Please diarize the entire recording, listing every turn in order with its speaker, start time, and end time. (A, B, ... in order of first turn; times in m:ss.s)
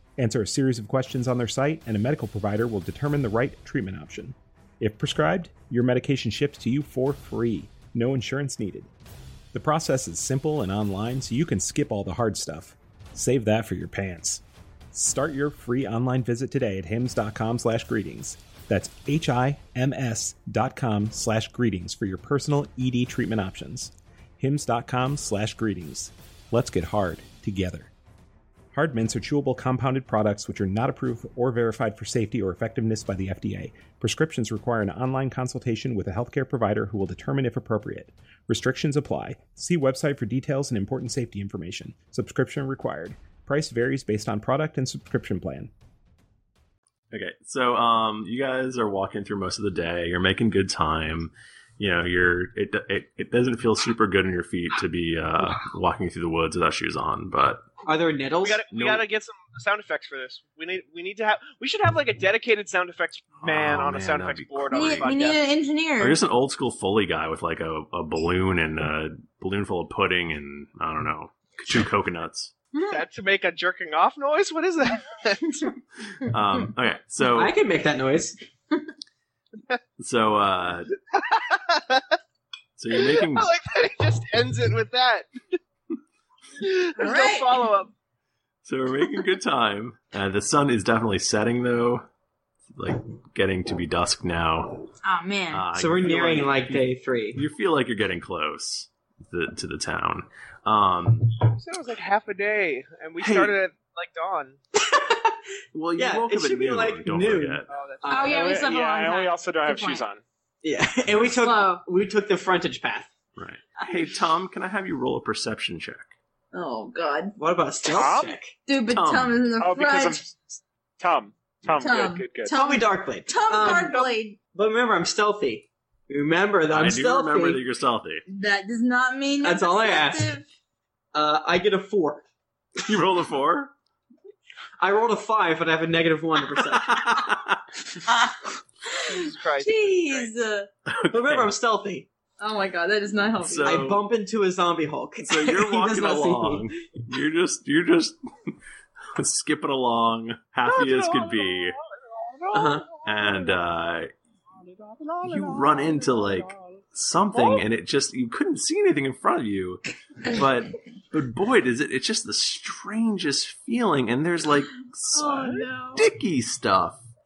0:00.2-0:08.9 A
0:09.5-0:27.9 A
0:28.7-0:45.7 A
0:47.1-0:57.6 B
0:57.8-0:58.6 C
0:58.4-1:05.4 D
0:58.7-0:59.0 B
1:03.4-1:05.2 B
1:04.7-1:06.2 E
1:06.0-1:12.5 B
1:12.7-1:13.0 E
1:12.9-1:15.7 D
1:16.2-1:17.5 B
1:17.3-1:18.4 C
1:20.0-1:20.9 B
1:21.3-1:22.0 D
1:22.8-1:23.5 B
1:22.9-1:25.3 D
1:26.6-1:27.9 D
1:27.0-1:27.6 E
1:28.6-1:32.0 B
1:32.7-1:34.9 B
1:35.0-1:35.6 E
1:35.5-1:41.4 B
1:35.7-1:37.4 C
1:41.6-1:44.6 D
1:43.2-1:43.5 B
1:44.9-1:45.3 C
1:45.7-1:47.7 B
1:46.0-1:48.6 C
1:47.7-1:48.6 D
1:48.1-1:50.0 E
1:48.3-1:50.2 F
1:50.6-1:53.1 C
1:51.4-1:51.8 E
1:53.4-1:56.1 B
1:56.5-1:57.4 E
1:57.4-1:58.5 C
1:57.9-1:58.3 F
1:58.7-2:00.2 E
1:58.8-1:59.4 B
1:59.6-2:02.5 F
2:01.7-2:04.4 E
2:02.5-2:07.6 C
2:06.7-2:08.2 B
2:08.3-2:10.4 E
2:09.4-2:10.4 C
2:11.1-2:12.2 C
2:12.8-2:13.7 B
2:14.8-2:17.3 C
2:16.8-2:17.6 B
2:18.1-2:18.3 E
2:18.9-2:20.7 E
2:19.1-2:20.4 D
2:20.8-2:21.5 B
2:21.0-2:22.1 C
2:22.4-2:23.8 E
2:23.4-2:24.0 B
2:23.6-2:26.7 C
2:25.2-2:28.5 B
2:29.1-2:31.8 B
2:30.8-2:31.6 D
2:32.2-2:33.5 D
2:32.5-2:32.8 C
2:33.0-2:34.1 B
2:34.7-2:36.8 D
2:35.2-2:47.0 B
2:45.1-2:46.0 E